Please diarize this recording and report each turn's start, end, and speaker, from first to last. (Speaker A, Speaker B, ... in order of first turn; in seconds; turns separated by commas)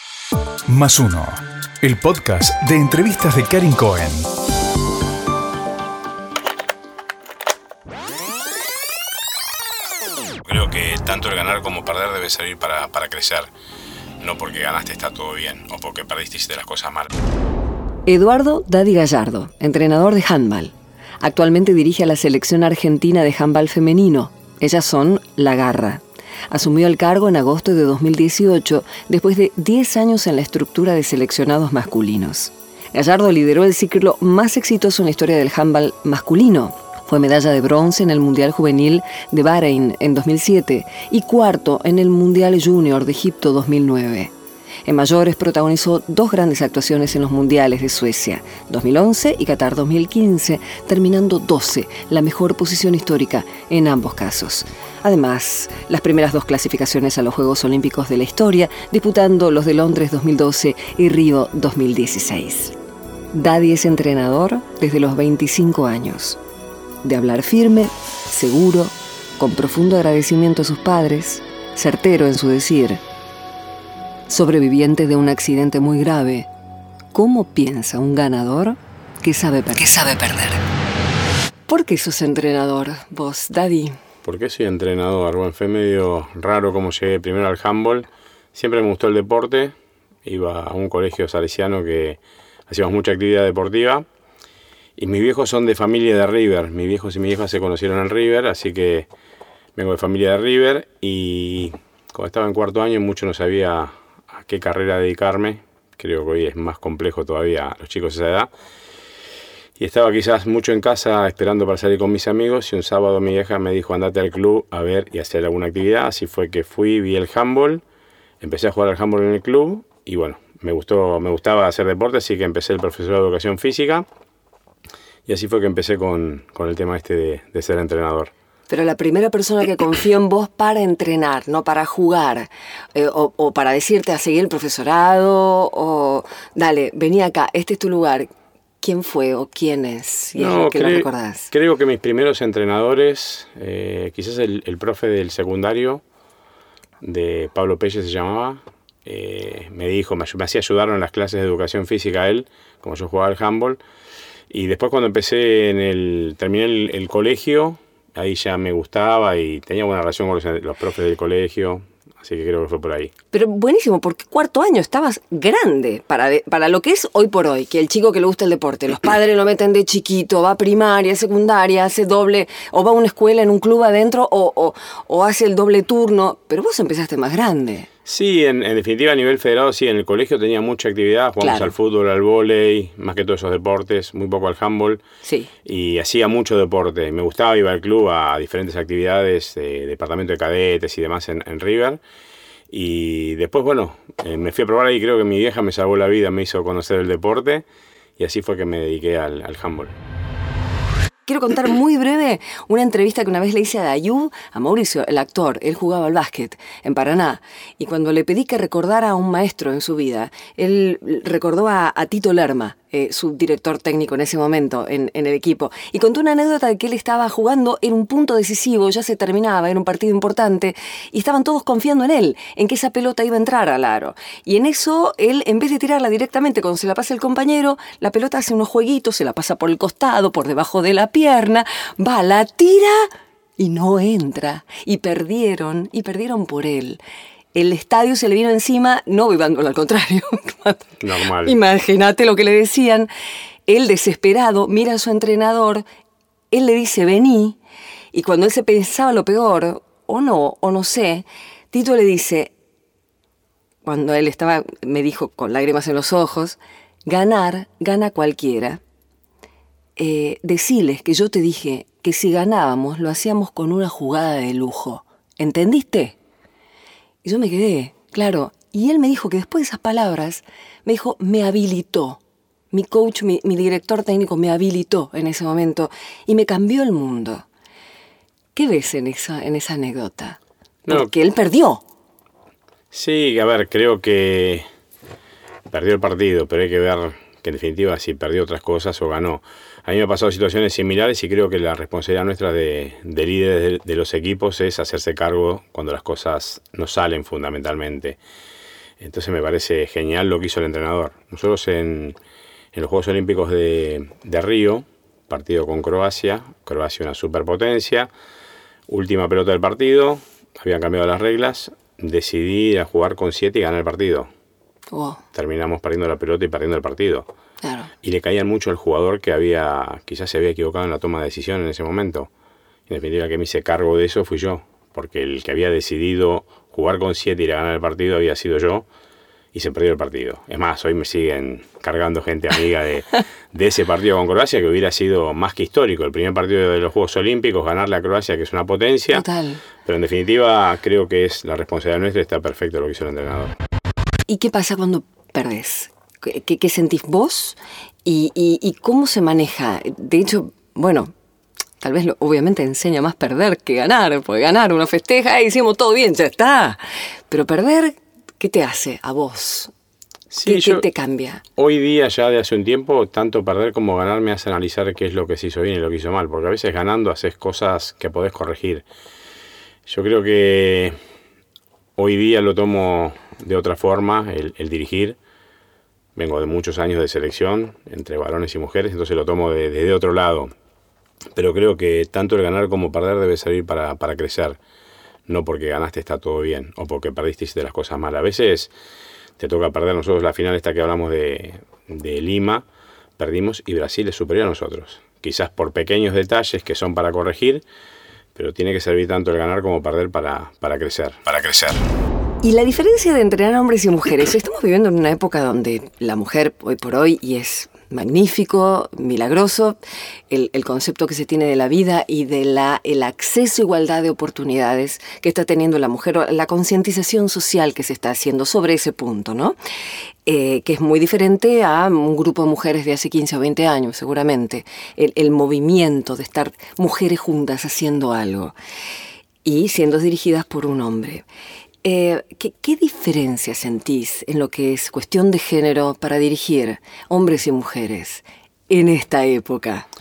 Speaker A: 0.7-4.3, Speaker B: 10.4-13.5, Speaker B: 14.2-17.1, Speaker C: 18.1-44.3, Speaker C: 44.9-62.7, Speaker C: 63.3-66.4, Speaker C: 67.0-73.0, Speaker C: 74.3-76.5, Speaker C: 77.1-80.6, Speaker C: 81.7-84.0, Speaker B: 84.2-89.7, Speaker B: 90.2-94.0, Speaker B: 95.0-99.1, Speaker B: 99.8-108.5, Speaker B: 109.8-117.8, Speaker B: 118.4-124.0, Speaker B: 125.2-128.3, Speaker C: 128.7-141.5, Speaker B: 140.3-146.0, Speaker B: 147.0-153.8, Speaker B: 154.5-163.1, Speaker C: 163.3-177.9, Speaker B: 178.1-185.0, Speaker C: 181.4-181.7, Speaker C: 185.2-185.5, Speaker B: 185.6-192.0, Speaker B: 192.7-197.6, Speaker B: 198.2-199.9, Speaker C: 201.2-237.0, Speaker C: 237.5-240.9, Speaker B: 241.0-241.6, Speaker C: 241.4-243.1, Speaker C: 243.7-245.8, Speaker C: 246.5-247.6, Speaker C: 248.1-252.5, Speaker C: 253.8-258.8, Speaker C: 260.0-266.2, Speaker C: 267.2-272.2, Speaker C: 272.7-277.4, Speaker C: 278.5-281.8, Speaker B: 282.9-284.6, Speaker B: 285.7-298.2, Speaker B: 299.0-302.2, Speaker B: 302.7-308.1, Speaker B: 308.9-314.3, Speaker C: 314.9-315.2, Speaker B: 315.3-317.3, Speaker C: 317.6-317.9, Speaker B: 318.0-322.3, Speaker B: 322.9-328.9, Speaker B: 329.5-339.2, Speaker C: 339.1-339.6, Speaker B: 339.8-343.5, Speaker C: 344.3-351.1, Speaker C: 351.8-359.7, Speaker B: 360.3-360.8, Speaker C: 360.4-361.4, Speaker B: 361.6-368.9, Speaker B: 369.9-370.9, Speaker B: 372.0-375.2, Speaker B: 376.1-380.5, Speaker B: 381.3-384.6, Speaker B: 385.3-388.7, Speaker B: 389.4-392.6, Speaker B: 393.2-397.6, Speaker B: 398.4-401.8, Speaker C: 402.4-419.6, Speaker C: 420.2-428.5, Speaker C: 429.4-431.2, Speaker C: 431.8-439.9